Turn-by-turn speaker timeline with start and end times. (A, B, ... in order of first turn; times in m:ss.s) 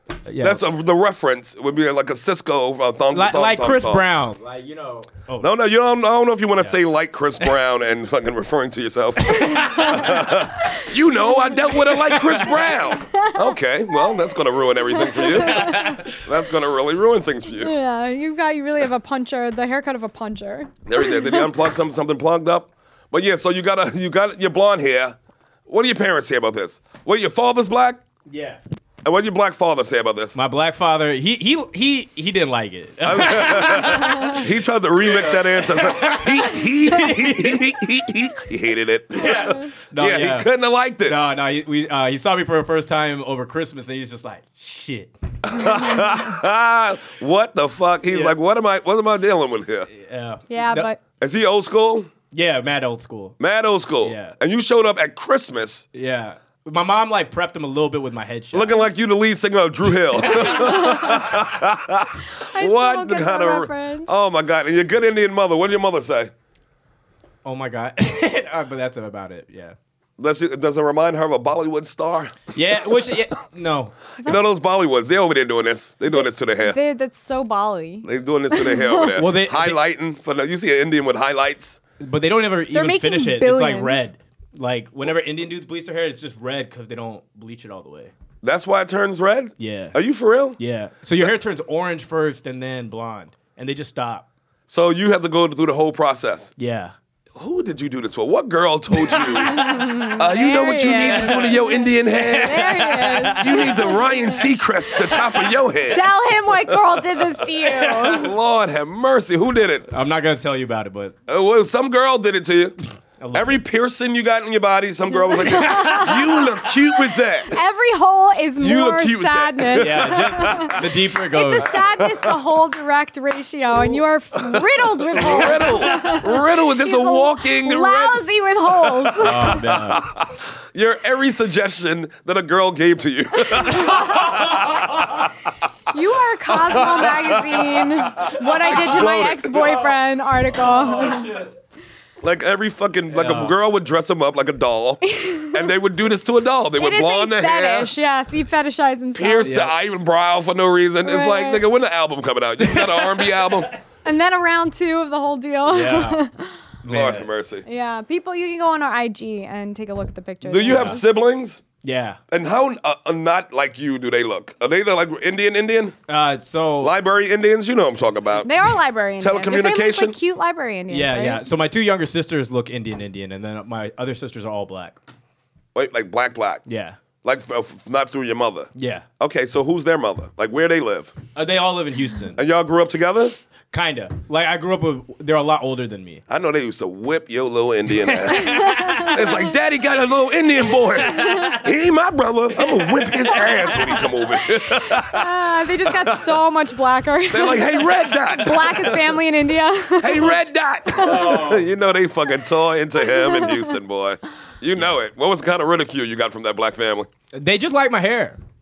0:00.2-0:00.6 A
0:00.4-0:04.1 B
0:03.1-0:05.5 A
0:05.4-0:17.7 B
0:09.2-0:10.3 A
0:09.6-0:10.3 C
0:11.9-0:12.6 A
0:12.9-0:14.1 C
0:14.9-0:16.1 C
0:15.4-0:16.2 A
0:17.6-0:21.5 C
0:20.8-0:25.2 B
0:25.7-0:28.0 B
0:28.3-0:28.6 A
0:29.0-0:30.3 B
0:30.3-0:34.4 A
0:33.0-0:41.2 B
0:35.0-0:37.6 A
0:39.1-0:40.5 A
0:41.0-0:45.1 A
0:45.4-0:49.9 B
0:48.1-0:48.4 A
0:49.9-0:50.9 A
0:50.5-0:51.0 C
0:51.2-0:52.1 B
0:52.3-0:53.3 A
0:53.4-0:55.8 B
0:54.0-0:54.4 A
0:55.9-0:58.8 A
0:58.5-1:06.3 B
1:00.1-1:00.9 A
1:00.5-1:01.3 C
1:02.4-1:04.1 C
1:07.4-1:09.8 A
1:10.2-1:12.5 B
1:12.5-1:14.0 A
1:14.2-1:16.8 B
1:16.1-1:19.2 C
1:18.0-1:21.8 B
1:19.2-1:19.8 A
1:22.0-1:28.1 A
1:22.7-1:24.0 C
1:28.4-1:30.6 B
1:29.6-1:30.0 A
1:30.6-1:34.2 A
1:34.7-1:36.5 B
1:36.6-1:36.9 A
1:37.4-1:46.1 B
1:39.0-1:44.5 C
1:42.1-1:44.0 A
1:45.9-1:48.3 C
1:46.7-1:47.4 B
1:47.7-1:48.1 A
1:48.0-1:49.9 B
1:49.9-1:51.1 A
1:51.3-1:52.8 B
1:53.2-1:53.6 A
1:53.3-1:57.6 B
1:55.1-1:56.7 C
1:55.5-1:56.1 A
1:57.4-2:09.6 C
1:58.6-2:00.9 B
1:59.8-2:01.8 A
2:01.8-2:02.4 B
2:04.3-2:15.2 B
2:05.3-2:05.7 A
2:09.2-2:10.1 A
2:13.5-2:14.0 C
2:13.9-2:15.3 A
2:15.9-2:21.4 C
2:16.5-2:19.9 B
2:18.3-2:19.7 A
2:20.5-2:21.5 A
2:22.2-2:27.9 B
2:23.1-2:23.5 A
2:25.1-2:25.7 C
2:26.8-2:29.5 C
2:29.1-2:33.7 B
2:29.4-2:29.7 A
2:31.0-2:31.6 C
2:32.6-2:33.8 A
2:34.0-2:36.6 C
2:35.6-2:36.2 A
2:36.8-2:37.3 A
2:36.8-2:37.6 B
2:37.6-2:41.0 C
2:40.4-2:41.6 B
2:40.6-2:41.0 A
2:41.8-2:42.2 A
2:42.3-2:46.0 B
2:46.1-2:46.9 A
2:46.8-2:48.5 B
2:48.3-2:51.4 C
2:49.2-2:50.2 B
2:50.9-2:55.0 A
2:55.7-2:56.6 B
2:56.6-2:57.0 A
2:57.2-3:01.1 B
2:58.8-2:59.0 A
3:01.3-3:02.4 A
3:02.4-3:03.4 B
3:03.7-3:06.2 A
3:06.3-3:16.4 B
3:08.2-3:09.4 C
3:08.2-3:09.3 A
3:11.1-3:11.6 C
3:11.2-3:11.5 A
3:12.7-3:14.1 A
3:14.7-3:20.4 C
3:17.3-3:19.2 B
3:20.0-3:27.1 B
3:20.9-3:21.4 C
3:21.0-3:21.7 A
3:23.0-3:23.7 C
3:27.3-3:28.4 A